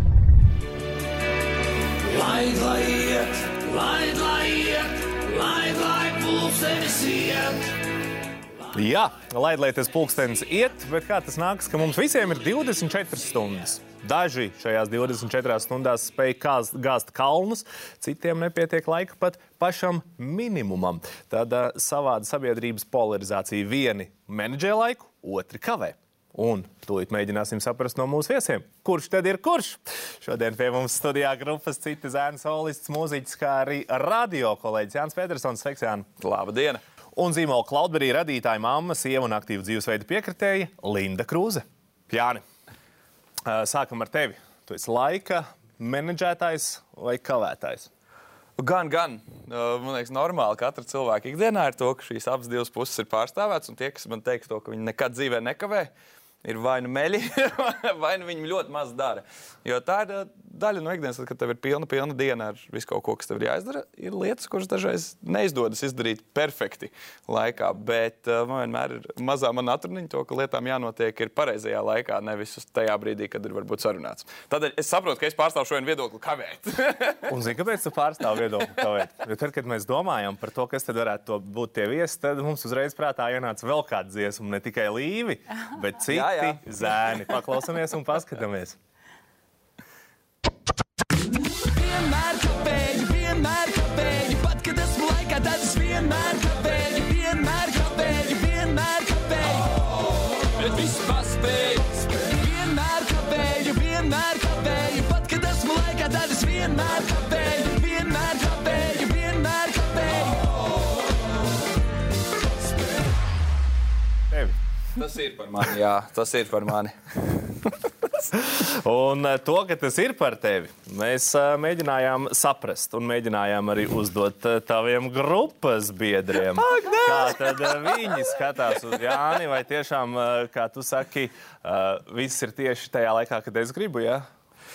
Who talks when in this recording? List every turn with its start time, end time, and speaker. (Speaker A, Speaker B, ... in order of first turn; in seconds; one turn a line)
Speaker A: 2.0-7.7
Speaker B: 8.7-36.1
Speaker C: 36.2-36.8
Speaker B: 37.1-42.4
Speaker B: 43.5-47.9
Speaker C: 48.6-55.9
Speaker C: 56.4-77.3
Speaker B: 77.3-88.8
Speaker C: 86.1-87.1
Speaker A: 91.7-99.8
Speaker A: 100.5-110.5
Speaker B: 114.3-114.5
Speaker C: 115.0-116.9
Speaker B: 118.3-134.3
Speaker C: 126.7-127.9